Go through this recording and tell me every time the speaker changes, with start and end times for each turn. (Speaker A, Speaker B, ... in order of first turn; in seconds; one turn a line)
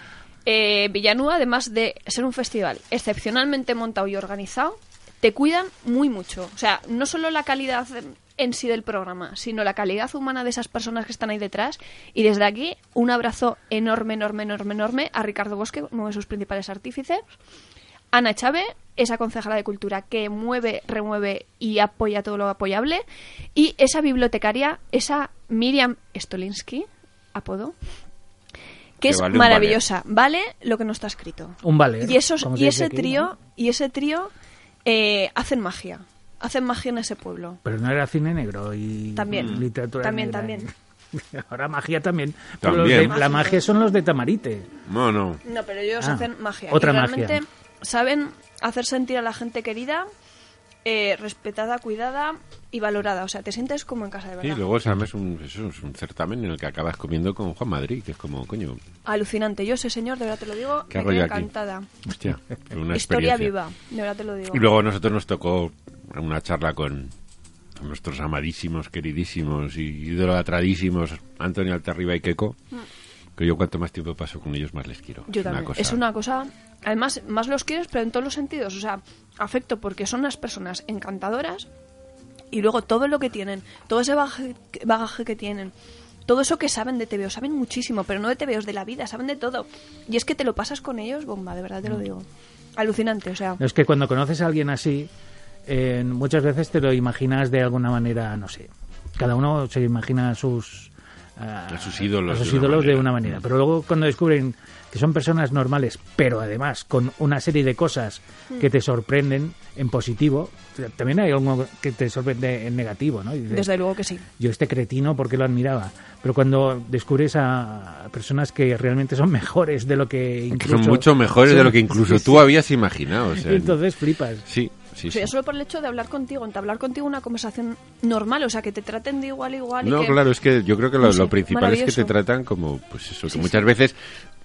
Speaker A: 0.5-17.2
Speaker A: 18.1-23.0
Speaker A: 23.5-27.7
Speaker A: 29.0-34.3
Speaker B: 29.0-29.8
Speaker C: 31.6-33.3
Speaker A: 34.9-37.6
Speaker C: 37.6-44.7
Speaker A: 39.1-40.6
Speaker B: 39.3-39.6
Speaker B: 42.6-43.1
Speaker A: 42.9-43.8
Speaker B: 44.9-45.4
Speaker A: 45.4-50.1
Speaker C: 46.0-47.4
Speaker A: 50.8-54.6
Speaker B: 54.4-58.8
Speaker A: 59.0-61.9
Speaker B: 60.9-61.5
Speaker B: 62.1-63.5
Speaker A: 62.9-64.7
Speaker B: 64.5-67.1
Speaker B: 67.8-72.6
Speaker B: 73.3-76.0
Speaker A: 75.3-81.7
Speaker A: 82.5-85.7
Speaker A: 86.2-92.2
Speaker A: 92.8-93.6
Speaker C: 93.6-95.1
Speaker C: 95.7-113.7
Speaker B: 101.7-103.4
Speaker A: 113.5-114.2
Speaker C: 114.4-122.5
Speaker B: 120.5-123.8
Speaker C: 123.4-124.4
Speaker B: 124.5-125.3
Speaker A: 125.1-130.2
Speaker B: 129.8-134.0
Speaker A: 131.0-132.1
Speaker A: 133.3-133.7